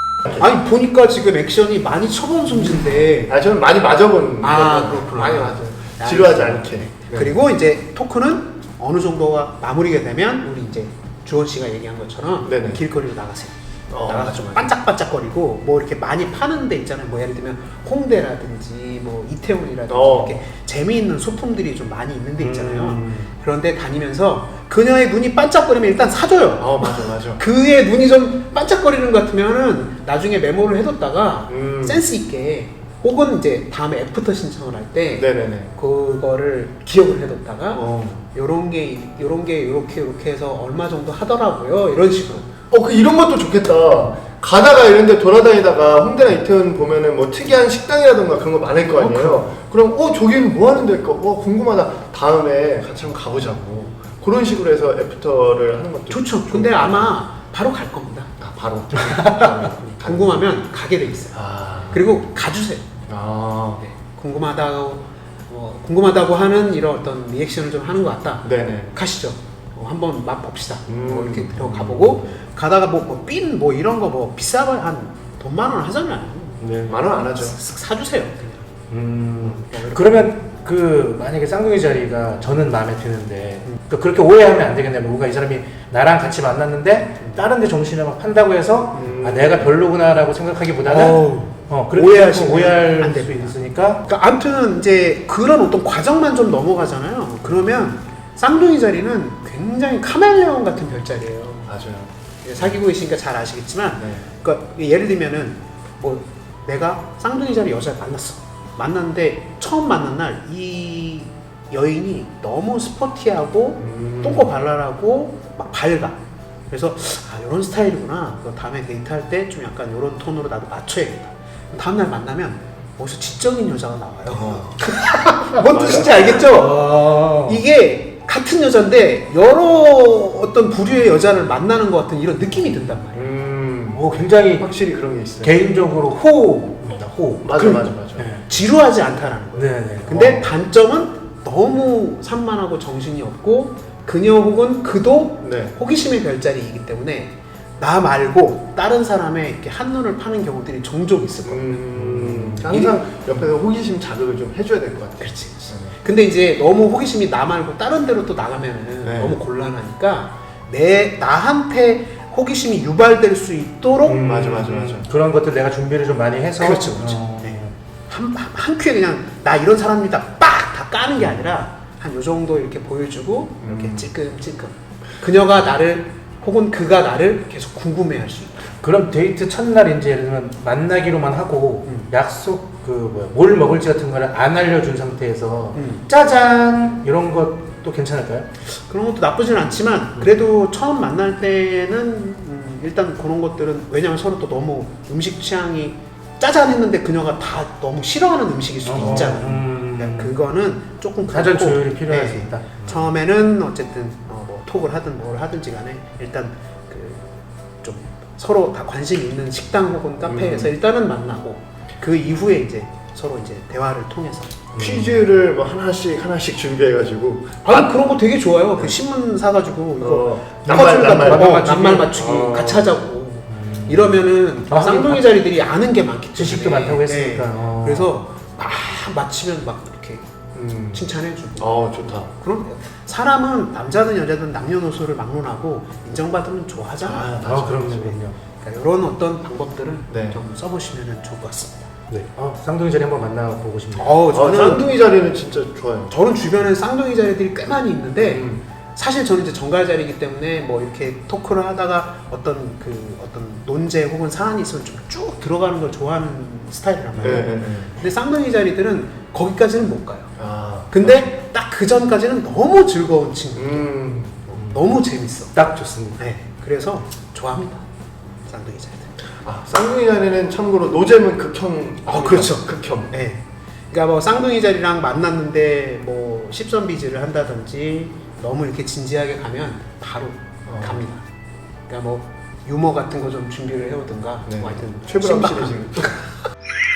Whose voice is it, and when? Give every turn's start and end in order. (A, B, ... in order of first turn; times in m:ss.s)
0:00.3-0:03.3 A
0:03.3-0:07.4 B
0:04.4-0:42.5 A
0:12.4-0:12.8 B
0:13.9-0:14.7 B
0:19.9-0:20.4 B
0:22.4-0:23.3 C
0:26.6-0:27.4 B
0:31.5-0:32.0 B
0:35.2-0:35.7 B
0:37.7-0:38.2 B
0:42.7-0:57.1 B
0:49.0-0:49.5 A
0:56.1-0:58.3 A
0:58.4-1:00.4 B
0:59.4-1:02.9 A
1:01.3-1:02.1 B
1:03.1-1:03.8 B
1:03.8-1:18.7 A
1:08.4-1:08.9 B
1:10.9-1:12.2 B
1:16.6-1:16.9 C
1:16.9-1:17.6 B
1:18.9-1:34.0 C
1:19.4-1:20.3 A
1:29.0-1:29.7 B
1:30.8-1:41.7 A
1:41.7-1:42.1 B
1:42.4-1:56.2 A
1:44.0-1:44.2 B
1:53.8-1:54.5 B
1:56.7-2:13.3 A
2:04.3-2:04.8 B
2:05.5-2:06.4 B
2:06.1-2:07.6 C
2:13.1-2:15.6 B
2:13.9-2:14.7 C
2:15.4-2:17.5 C
2:17.4-2:18.3 B
2:17.5-2:31.8 A
2:18.2-2:18.4 C
2:19.6-2:20.5 C
2:25.4-2:25.7 B
2:31.4-2:36.0 B
2:31.9-2:32.7 C
2:32.6-2:33.0 A
2:35.2-2:44.3 A
2:39.0-2:39.4 B
2:44.0-2:47.7 C
2:44.1-2:45.1 B
2:46.6-2:58.7 A
2:53.6-2:54.1 B
2:58.8-3:08.5 C
3:01.8-3:02.1 A
3:05.7-3:06.0 A
3:08.6-3:27.3 A
3:18.8-3:20.4 C
3:19.0-3:19.4 B
3:21.3-3:23.0 C
3:27.8-3:34.7 A
3:30.2-3:30.7 B
3:34.7-3:35.2 C
3:34.8-3:37.9 B
3:37.6-3:50.2 A
3:40.0-3:42.9 B
3:41.1-3:42.7 C
3:43.5-3:45.2 C
3:46.3-3:48.1 C
3:50.5-3:51.0 B
3:50.8-3:57.3 A
3:51.6-3:52.3 B
3:57.0-3:58.1 B
3:57.4-3:58.4 C
3:58.5-4:01.9 A
4:00.1-4:00.4 B
4:02.1-4:04.2 C
4:04.0-4:04.9 A
4:04.3-4:06.1 B
4:06.1-4:20.3 A
4:08.2-4:08.6 B
4:17.2-4:17.9 B
4:20.4-4:21.3 B
4:20.9-4:23.9 A
4:23.5-4:24.4 B
4:24.5-4:25.6 A
4:25.5-4:26.2 C
4:26.2-4:29.1 A
4:29.4-4:33.1 B
4:32.1-4:41.2 A
4:40.6-4:41.0 B
4:41.9-4:46.2 A
4:44.5-4:46.1 B